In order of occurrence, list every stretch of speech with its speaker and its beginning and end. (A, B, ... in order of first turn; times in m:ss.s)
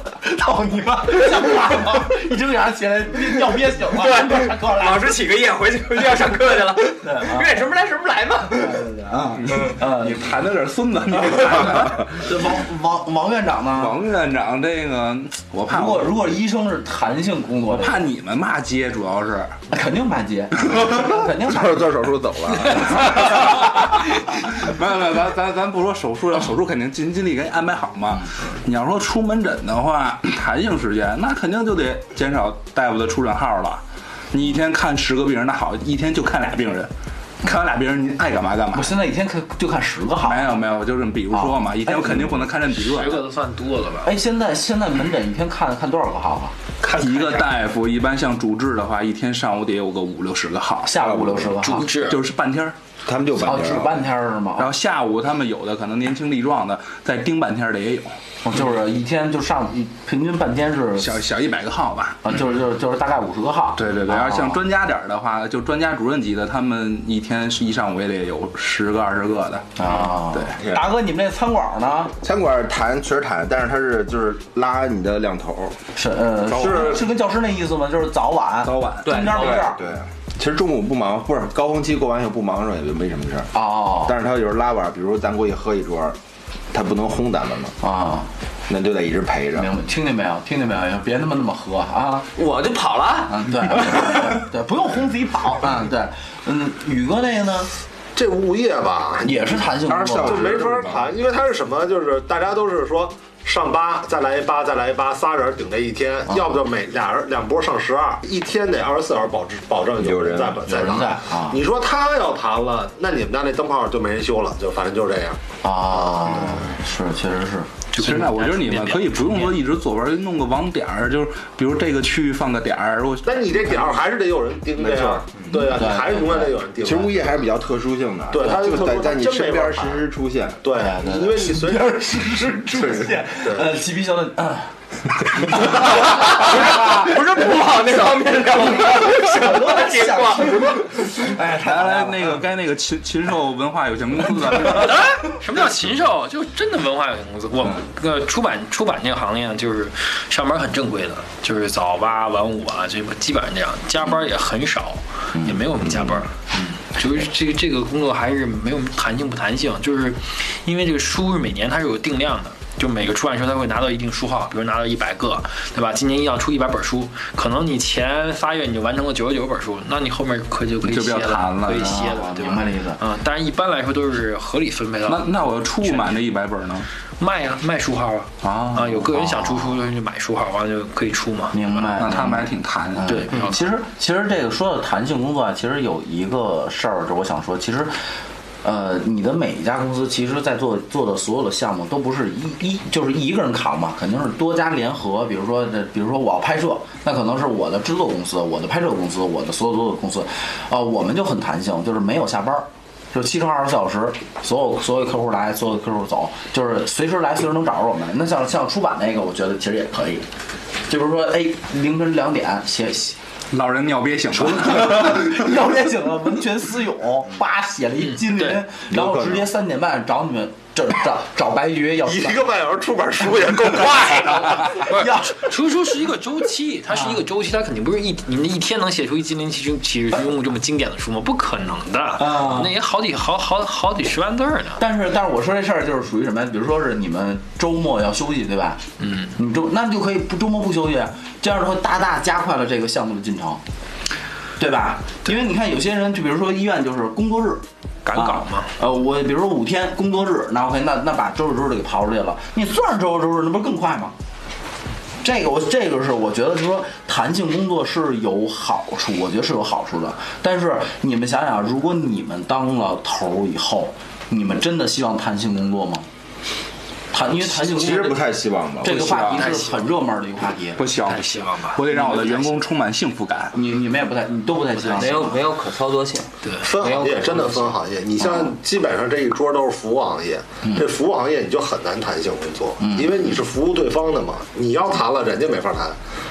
0:00.1-0:05.2 A
0:03.9-0:08.8 B
0:07.0-0:07.5 A
0:08.5-0:10.3 A
0:09.4-0:12.1 C
0:12.0-0:14.0 A
0:13.8-0:16.1 C
0:15.7-0:18.1 A
0:17.7-0:19.6 C
0:19.7-0:21.9 A
0:20.8-0:23.5 D
0:22.7-0:36.9 C
0:37.4-0:38.9 C
0:38.7-0:40.5 A
0:40.2-0:43.2 C
0:41.3-0:42.5 A
0:42.7-0:44.1 E
0:44.0-0:46.6 A
0:46.8-0:51.0 C
0:46.9-0:47.4 E
0:50.8-0:51.9 A
0:51.0-0:51.5 D
0:51.6-0:52.2 E
0:51.9-0:52.8 C
0:53.0-0:54.0 D
0:53.4-0:54.7 A
0:54.6-0:58.1 C
0:58.4-1:01.1 A
1:01.0-1:02.2 C
1:02.2-1:04.6 A
1:03.8-1:10.6 C
1:09.8-1:12.1 A
1:10.6-1:10.9 D
1:12.2-1:15.8 D
1:16.0-1:19.8 A
1:16.5-1:17.0 D
1:18.6-1:19.2 C
1:19.0-1:19.6 B
1:19.2-1:23.5 D
1:23.5-1:24.2 A
1:24.0-1:26.2 D
1:26.7-1:27.7 D
1:27.8-1:28.3 A
1:28.7-1:29.7 D
1:29.5-1:32.3 A
1:32.4-1:33.5 B
1:33.3-1:37.7 A
1:38.1-1:39.7 F
1:39.2-1:40.6 A
1:39.9-1:41.1 D
1:40.2-1:55.4 F
1:46.3-1:46.5 A
1:50.0-1:50.6 D
1:50.6-1:51.6 A
1:55.6-1:57.7 A
1:55.9-1:56.7 F
1:57.9-1:59.6 E
1:58.0-2:03.9 C
2:03.2-2:07.4 F
2:04.8-2:05.2 D
2:05.6-2:06.5 A
2:06.8-2:10.6 D
2:08.3-2:10.0 F
2:10.6-2:11.9 F
2:10.8-2:14.7 A
2:12.8-2:13.1 D
2:13.4-2:13.7 F
2:15.2-2:16.5 A
2:16.0-2:21.0 B
2:18.5-2:22.4 A
2:21.4-2:25.0 C
2:24.7-2:56.2 E
2:50.8-2:51.9 C
2:51.7-2:53.0 A
2:55.0-2:56.9 C
2:57.2-3:01.6 E
2:58.4-2:59.8 A
3:01.5-3:08.0 A
3:01.8-3:03.2 C
3:03.1-3:03.6 E
3:08.6-3:30.3 A
3:30.9-3:33.2 A
3:33.5-3:35.5 C
3:34.3-3:42.4 A
3:38.2-3:38.6 E
3:38.8-3:39.5 D
3:42.0-3:44.8 F
3:44.8-3:54.8 E
3:44.9-3:45.4 A
3:46.9-3:47.2 A
3:52.2-3:52.8 A
3:54.8-3:58.8 A
3:59.0-3:59.4 E
3:59.3-4:03.6 A
4:04.6-4:14.1 A
4:08.0-4:08.7 E
4:15.2-4:26.0 A
4:27.1-4:30.8 A
4:27.5-4:29.0 D
4:28.8-4:29.6 C
4:29.3-4:29.9 E
4:30.8-4:33.6 C
4:31.0-4:32.6 E
4:33.5-4:35.4 A
4:34.9-4:37.8 B
4:36.4-4:36.7 E
4:36.6-4:46.0 F
4:42.8-4:43.2 A